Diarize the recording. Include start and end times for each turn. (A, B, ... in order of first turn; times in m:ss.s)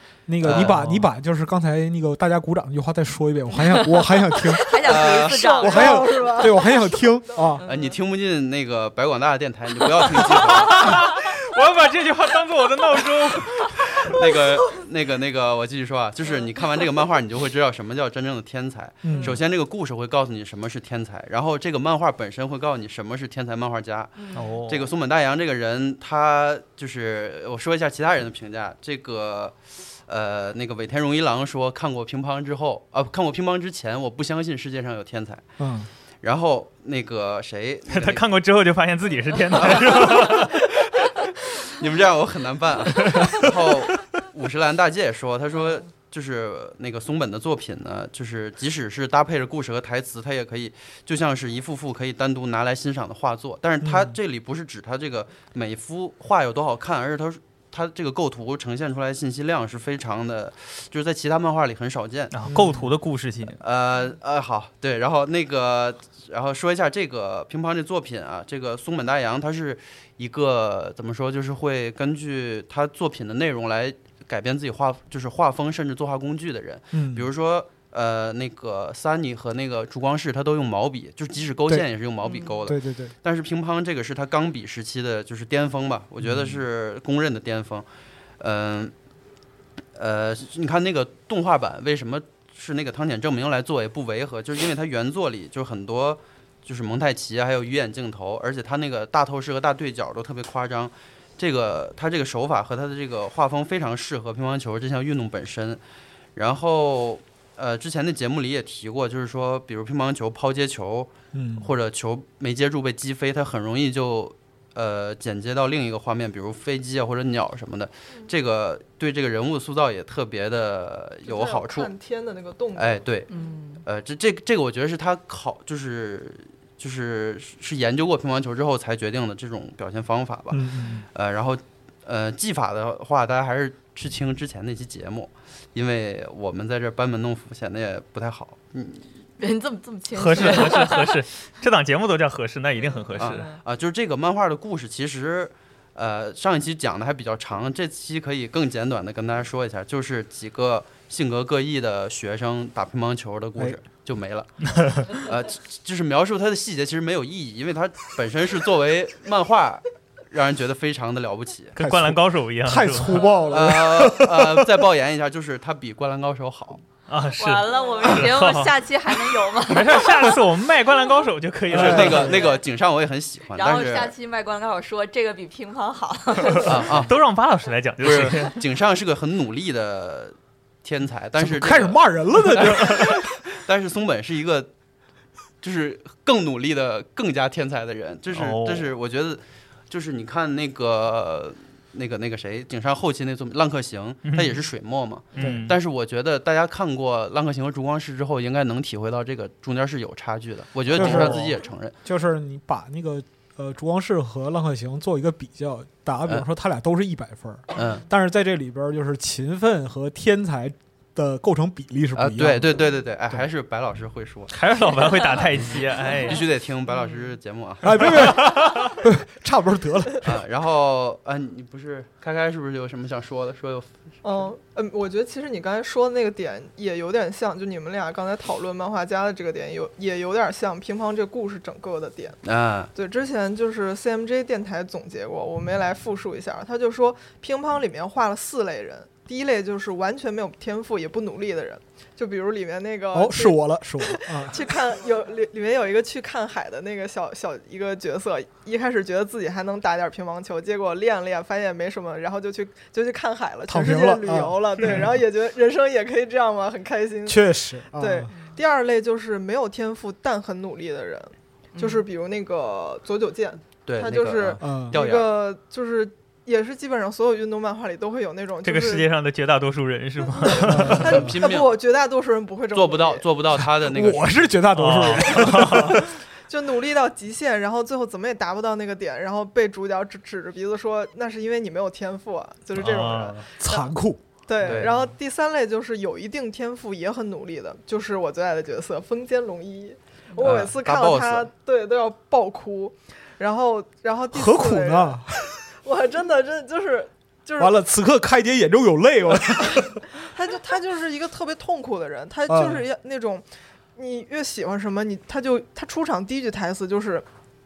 0:00.3-0:04.8 A
0:00.4-0:00.9 B
0:00.6-0:01.0 C
0:03.5-0:06.6 D
0:04.8-0:05.7 B
0:05.3-0:07.6 E
0:05.6-0:07.6 A
0:07.6-0:08.0 D
0:07.6-0:11.0 B
0:10.3-0:14.2 C
0:14.0-0:29.5 B
0:19.0-0:19.4 A
0:19.1-0:19.4 D
0:24.2-0:24.6 D
0:24.3-0:24.9 C
0:30.1-0:35.4 B
0:35.6-0:35.9 A
0:36.2-0:38.2 B
0:37.9-0:40.6 C
0:39.5-0:40.6 B
0:41.6-1:02.3 B
0:53.8-0:54.2 A
1:02.3-1:03.6 C
1:02.4-1:02.9 A
1:03.6-1:27.8 B
1:16.9-1:17.3 A
1:22.2-1:22.6 D
1:22.6-1:23.1 A
1:26.2-1:26.6 A
1:28.4-1:28.9 B
1:30.0-1:45.8 B
1:46.4-2:01.9 B
1:51.3-1:51.7 A
2:01.2-2:03.0 E
2:02.7-2:03.3 B
2:03.3-2:03.8 D
2:03.8-2:19.0 B
2:10.5-2:11.0 A
2:19.4-2:21.2 D
2:20.1-2:23.4 C
2:22.8-2:23.6 D
2:23.2-2:41.7 B
2:41.7-2:43.2 C
2:41.8-2:44.8 A
2:43.5-2:46.8 B
2:47.1-2:48.7 C
2:47.4-2:50.3 D
2:49.6-2:52.4 C
2:51.7-2:52.4 A
2:51.7-2:54.1 B
2:53.5-2:56.7 D
2:56.6-2:57.1 B
2:56.9-2:58.6 C
2:58.0-3:04.7 B
3:01.4-3:03.4 A
3:05.6-3:21.9 B
3:08.3-3:08.9 C
3:14.3-3:14.6 C
3:15.3-3:15.8 C
3:15.4-3:15.6 A
3:20.9-3:33.4 A
3:20.9-3:21.5 C
3:27.7-3:28.0 B
3:32.2-3:34.5 B
3:34.5-3:36.4 C
3:36.2-3:38.4 B
3:37.8-3:40.4 A
3:38.1-3:38.9 C
3:40.2-3:43.9 B
3:44.2-3:52.4 E
3:52.4-3:52.9 B
3:52.9-4:17.4 E
4:03.1-4:04.6 A
4:13.7-4:15.2 A
4:17.2-4:18.3 A
4:17.9-4:29.1 E
4:21.8-4:22.0 D
4:23.8-4:25.3 B
4:24.6-4:25.0 A
4:28.6-4:31.1 C
4:30.4-4:33.2 E
4:30.6-4:31.3 A
4:30.9-4:31.7 B
4:32.7-4:35.5 B
4:33.5-4:36.1 A
4:34.7-4:36.0 C
4:36.5-4:43.9 E
4:42.7-4:43.4 C
4:43.6-4:44.9 A
4:44.4-4:55.3 E
4:44.6-4:44.9 B
4:50.4-4:51.5 B
4:54.3-4:55.4 A
4:55.8-4:57.7 E
4:57.6-5:00.0 A
5:00.2-5:07.2 E
5:02.5-5:02.8 A